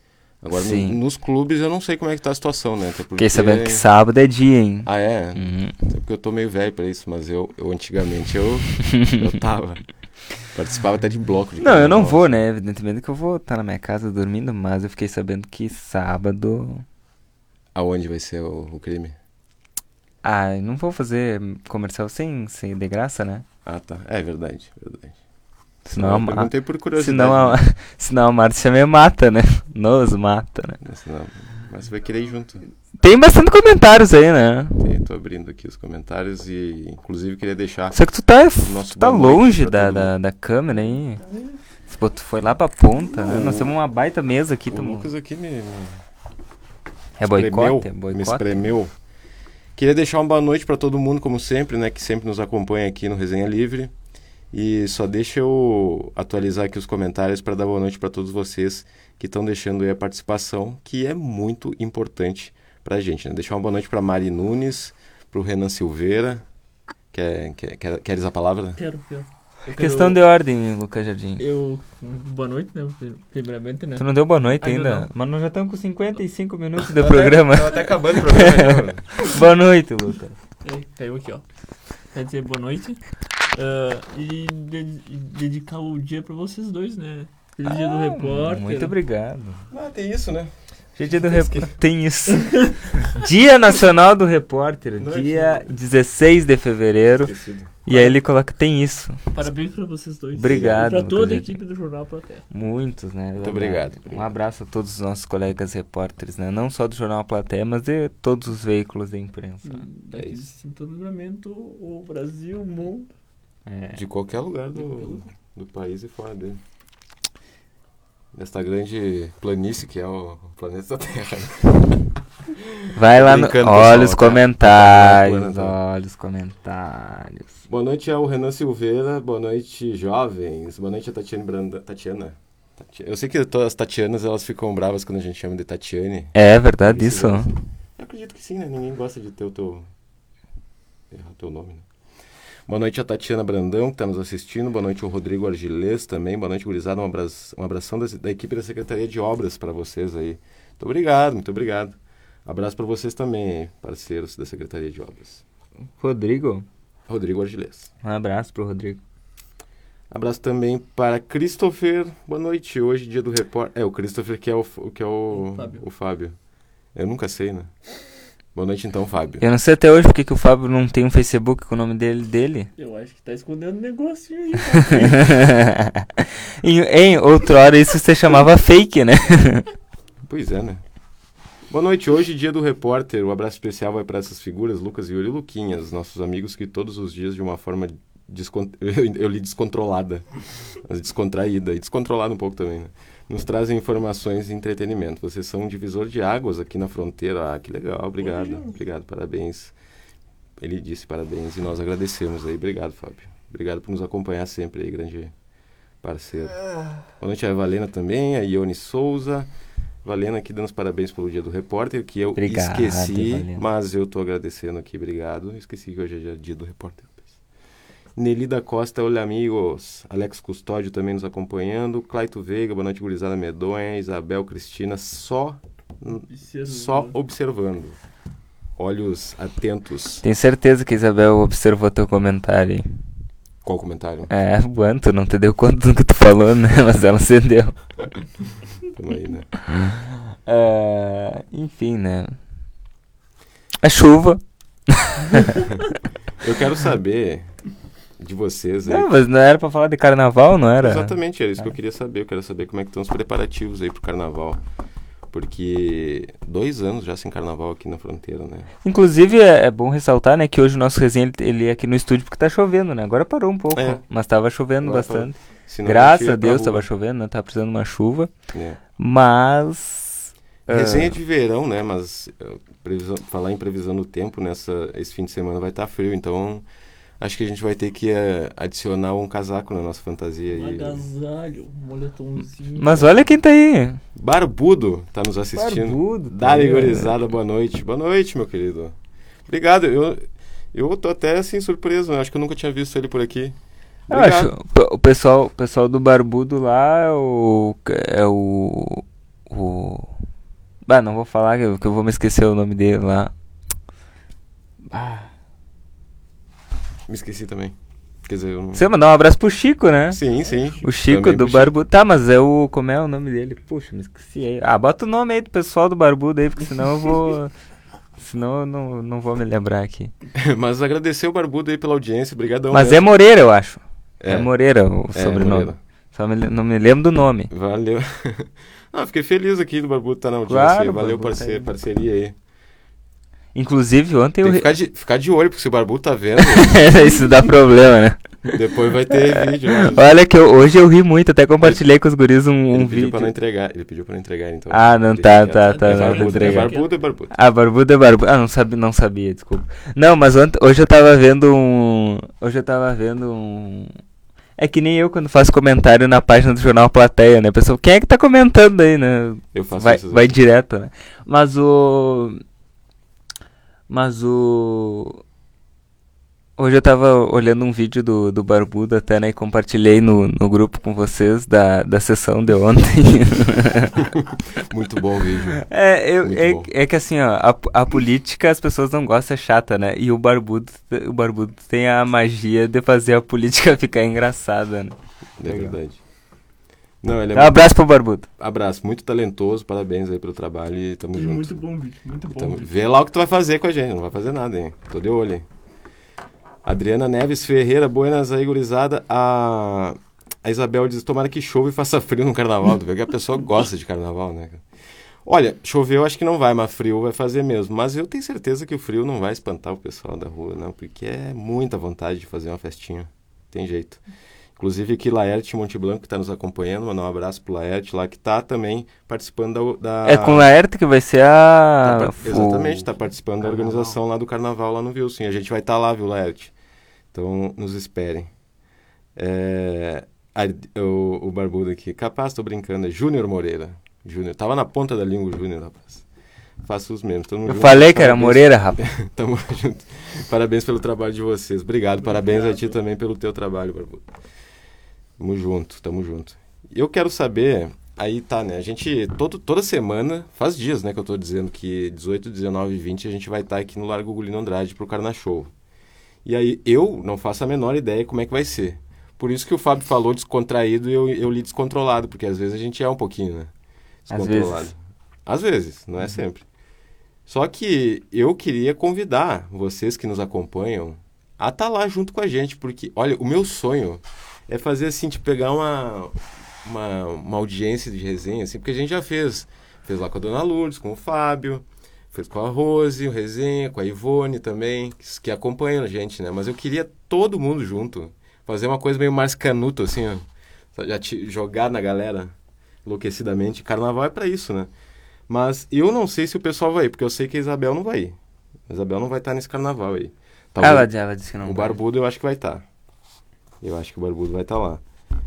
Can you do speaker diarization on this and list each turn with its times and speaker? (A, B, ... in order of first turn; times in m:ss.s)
0:00.4-0:03.9 A
0:00.5-0:01.0 B
0:03.2-0:05.8 B
0:04.8-0:09.8 A
0:08.8-0:09.3 B
0:10.5-0:12.4 A
0:11.6-0:16.8 B
0:17.8-0:19.2 A
0:20.2-0:23.5 B
0:23.6-0:25.2 A
0:25.8-0:30.8 B
0:25.9-0:27.6 A
0:30.8-0:32.6 A
0:33.0-0:34.8 B
0:34.8-0:38.0 A
0:37.9-0:41.2 B
0:38.6-0:40.1 A
0:41.2-0:41.5 C
0:41.9-0:45.1 B
0:43.2-0:43.7 A
0:44.7-0:46.0 A
0:47.2-0:48.5 B
0:47.2-0:48.9 A
0:49.8-0:53.9 A
0:54.5-1:06.4 A
1:07.1-1:08.8 A
1:08.8-1:10.2 C
1:09.7-1:11.4 B
1:11.4-1:14.1 C
1:14.0-1:20.4 B
1:14.6-1:15.1 C
1:16.9-1:19.1 A
1:20.6-1:21.4 C
1:22.1-1:23.0 C
1:23.5-1:29.0 C
1:27.6-1:29.6 B
1:29.7-1:30.5 A
1:31.0-1:37.3 B
1:31.1-1:31.7 A
1:32.3-1:32.7 C
1:35.0-1:35.7 A
1:37.2-1:37.7 A
1:37.8-1:39.2 B
1:37.9-1:38.2 C
1:39.3-1:42.4 C
1:40.4-1:41.6 B
1:40.5-1:40.8 A
1:42.5-1:49.9 B
1:43.4-1:44.3 A
1:49.6-1:53.1 C
1:50.1-1:50.4 A
1:53.7-1:54.0 B
1:53.9-1:56.6 A
1:54.8-1:55.2 C
1:58.3-2:02.0 A
2:02.6-2:05.8 A
2:03.0-2:07.6 B
2:07.7-2:19.9 A
2:16.4-2:17.5 B
2:21.1-2:21.9 A
2:22.7-2:35.4 A
2:36.0-2:36.7 B
2:37.1-2:37.9 A
2:38.0-2:39.0 B
2:40.1-2:46.4 A
2:45.3-2:45.8 C
2:47.0-2:47.7 A
2:48.5-2:49.4 A
2:49.4-2:52.7 B
2:52.8-2:55.4 C
2:54.8-2:59.7 B
3:00.3-3:00.8 A
3:01.7-3:10.3 A
3:10.8-3:19.8 A
3:18.2-3:18.7 C
3:20.6-3:25.3 A
3:26.0-3:26.6 A
3:27.2-3:29.5 A
3:30.0-3:37.3 A
3:32.4-3:33.6 B
3:38.2-3:48.0 A
3:46.1-3:47.2 C
3:48.8-3:50.2 A
3:50.2-3:52.9 B
3:53.6-3:54.3 A
3:54.3-3:57.8 B
3:58.9-3:59.5 A
4:00.4-4:02.4 B
4:03.8-4:05.8 B
4:06.4-4:07.5 A
4:08.2-4:09.1 A
4:08.8-4:11.2 B
4:10.8-4:14.6 A
4:15.3-4:18.7 A
4:18.8-4:28.3 B
4:23.8-4:24.0 A
4:24.8-4:26.8 A
4:28.5-4:28.8 A
4:29.0-4:31.2 B
4:30.7-4:36.6 A
4:37.2-4:41.0 A
4:40.5-4:43.2 C
4:42.8-4:44.0 B
4:44.2-4:49.0 A
4:45.5-4:47.2 B
4:49.5-4:53.6 A
4:54.1-4:54.5 A
4:54.1-5:00.1 B
5:00.9-5:03.3 B
5:04.9-5:05.3 B
5:07.1-5:07.8 A
5:08.3-5:08.9 A
5:08.7-5:10.2 B
5:10.1-5:11.7 A
5:10.8-5:17.5 B
5:18.2-5:20.1 B
5:20.4-5:23.1 A
5:22.7-5:27.5 B
5:24.2-5:24.5 A
5:25.1-5:25.8 A
5:27.5-5:32.4 A
5:30.5-5:31.7 B
5:33.6-5:34.7 B
5:34.4-5:37.0 A
5:36.4-5:38.2 B
5:38.5-5:40.1 A
5:39.1-5:43.3 B
5:42.7-5:47.3 A
5:44.7-5:46.8 B
5:45.7-5:46.9 C
5:47.3-5:53.9 B
5:54.6-6:02.4 B
5:59.5-6:00.3 A
6:03.9-6:05.2 B
6:06.6-6:14.0 B
6:14.0-6:15.6 A
6:15.6-6:25.8 B
6:16.2-6:16.7 A
6:25.4-6:26.0 A
6:27.0-6:27.7 A
6:27.3-6:28.3 B
6:28.4-6:31.5 A
6:31.1-6:32.8 C
6:32.3-6:35.5 A
6:36.6-6:44.6 A
6:45.2-6:54.0 A
6:54.6-7:00.5 A
7:00.0-7:02.9 B
7:01.8-7:06.5 A
7:07.1-7:08.3 A
7:09.2-7:16.0 A
7:16.6-7:24.0 A
7:17.5-7:18.8 B
7:22.0-7:22.7 C
7:25.2-7:35.5 A
7:36.2-7:43.5 A
7:44.1-7:44.8 A
7:44.1-7:44.7 B
7:45.3-7:46.4 A
7:47.3-8:12.3 A
8:12.8-8:14.7 A
8:15.3-8:18.2 A
8:18.7-8:20.9 A
8:20.6-8:21.8 B
8:21.4-8:22.6 A
8:23.6-8:24.8 A